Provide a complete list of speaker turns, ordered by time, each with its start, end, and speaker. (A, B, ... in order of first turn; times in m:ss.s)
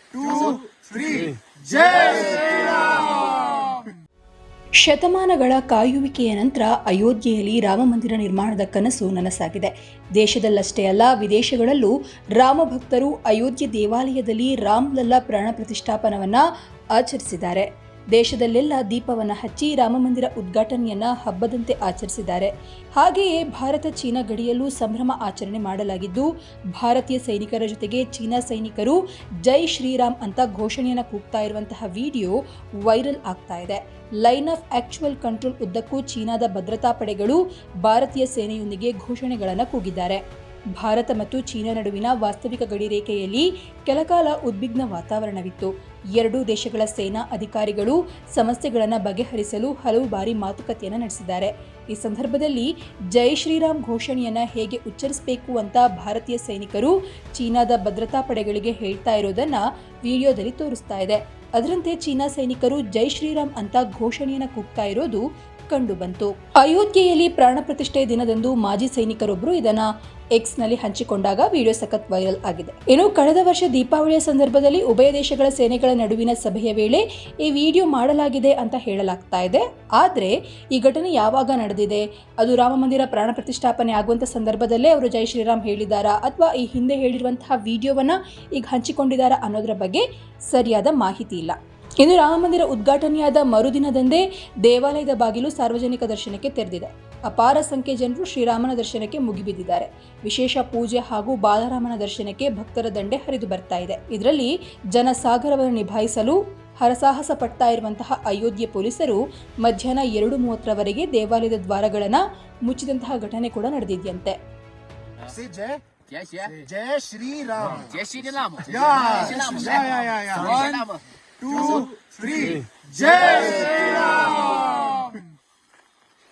0:00.1-0:03.1 A
0:04.8-0:16.4 B
0:17.0-0:40.2 B
0:40.8-1:54.4 B
1:55.3-1:55.8 A
1:56.1-1:56.6 C
1:56.5-1:57.9 A
1:57.7-2:01.0 C
1:58.7-2:00.6 A
2:01.4-2:04.5 A